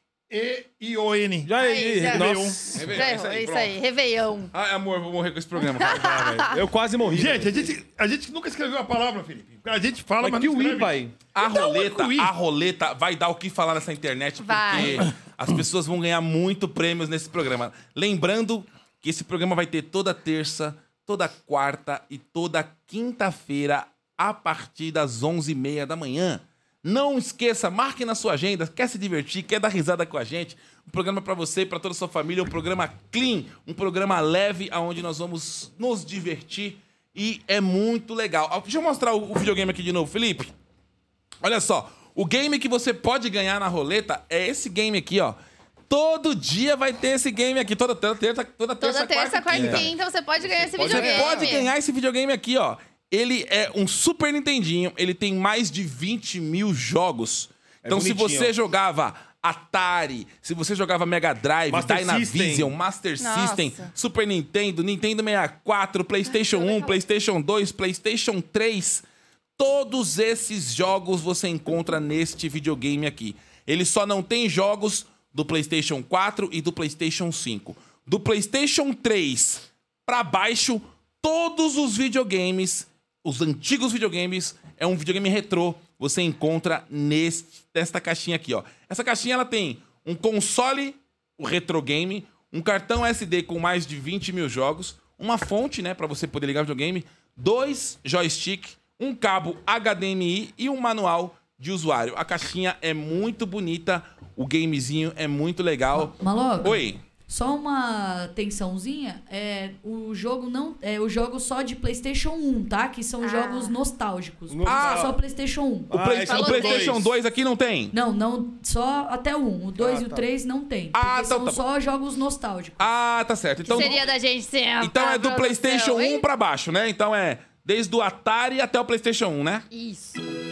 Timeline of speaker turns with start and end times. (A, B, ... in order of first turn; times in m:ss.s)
0:00.3-0:01.5 A
0:01.5-0:03.0 B
0:01.6-0:04.5 C
0:02.1-0:02.8 A
0:02.7-0:03.8 D
0:04.5-0:06.2 D
0:05.6-0:06.6 C
0:06.0-0:07.7 B
0:07.1-0:12.3 A
0:10.2-0:11.1 B
0:11.4-0:40.5 D
0:14.4-0:15.1 C
0:41.4-0:45.4 D
0:45.9-0:49.9 D
0:48.8-0:51.7 C
0:49.5-0:49.9 B
0:50.5-1:09.0 D
0:50.7-0:51.5 B
0:57.8-0:58.5 B
1:01.7-1:02.7 B
1:03.2-1:03.9 C
1:06.3-1:07.0 C
1:09.6-1:47.0 D
1:46.0-1:56.1 E
1:53.2-1:53.8 C
1:54.5-1:55.2 B
1:54.6-1:55.1 D
1:55.9-1:57.1 B
1:55.9-1:58.0 D
1:56.3-1:57.0 C
1:57.9-2:02.9 E
1:59.8-2:00.3 B
2:00.9-2:01.7 D
2:02.8-2:04.1 D
2:03.6-2:04.0 E
2:03.7-2:06.2 C
2:04.8-2:09.7 D
2:09.7-2:10.4 C